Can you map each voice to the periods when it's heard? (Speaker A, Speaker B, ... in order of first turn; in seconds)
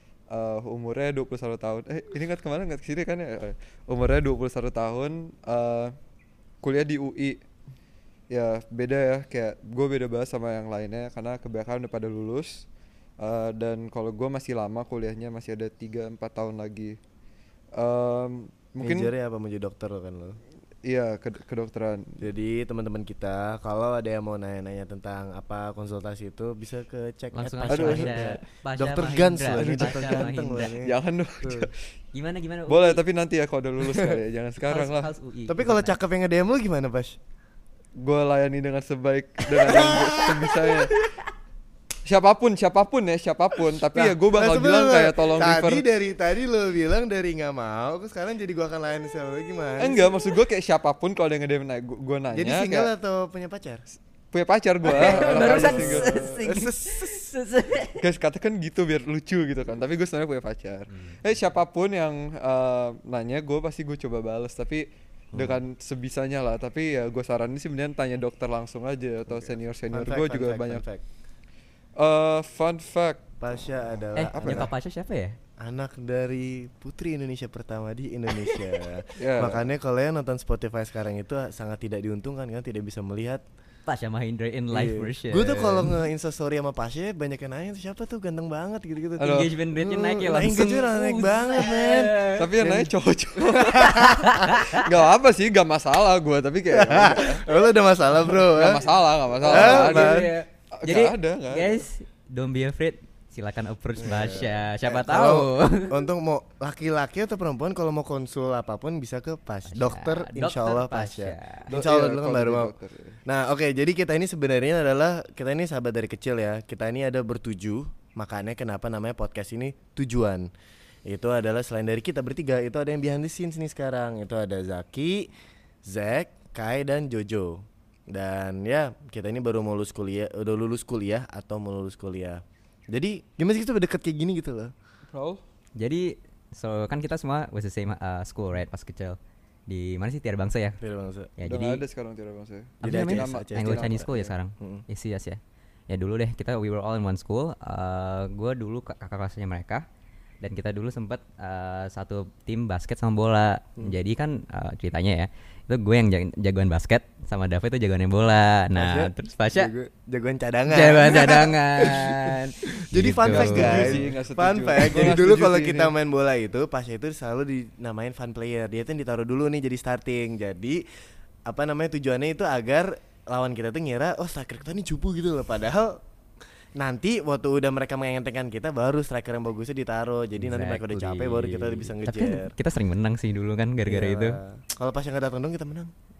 Speaker A: 0.3-5.9, 6.6-7.4, 8.3-12.7, 13.2-17.0, 17.8-19.1, 20.8-22.2, 27.7-28.4, 29.5-30.3, 30.9-31.7, 32.7-35.1, 38.0-40.9, 42.0-45.8, 49.8-52.9, 54.3-56.3, 58.0-70.8, 72.0-73.2, 74.3-74.7, 79.2-79.7, 89.2-89.5, 92.3-97.5, 98.5-101.8, 111.7-113.2, 135.1-135.4, 141.4-144.3, 163.3-165.9
Speaker B: 18.8-20.4, 22.2-31.7, 33.8-34.2, 35.5-37.2, 39.6-40.7, 43.9-50.1, 52.3-53.8, 54.9-57.3, 65.3-65.6, 69.3-71.0, 73.4-74.7, 75.6-83.4, 84.7-94.4, 96.7-100.4, 104.0-112.7, 113.3-120.5, 121.1-125.3, 125.8-134.7, 140.8-141.3, 142.8-144.8, 158.8-162.3, 162.9-170.8, 171.5-176.0, 176.8-182.6, 183.9-185.9
Speaker C: 27.3-30.8, 32.1-33.0, 34.7-36.0, 54.9-58.0, 60.9-61.2, 74.2-75.4, 83.9-86.0, 89.2-92.6, 94.1-94.9, 99.4-106.1, 109.7-111.7, 135.8-140.8, 141.4-141.8, 142.8-149.8, 150.4-159.7, 160.7-164.1, 180.4-184.4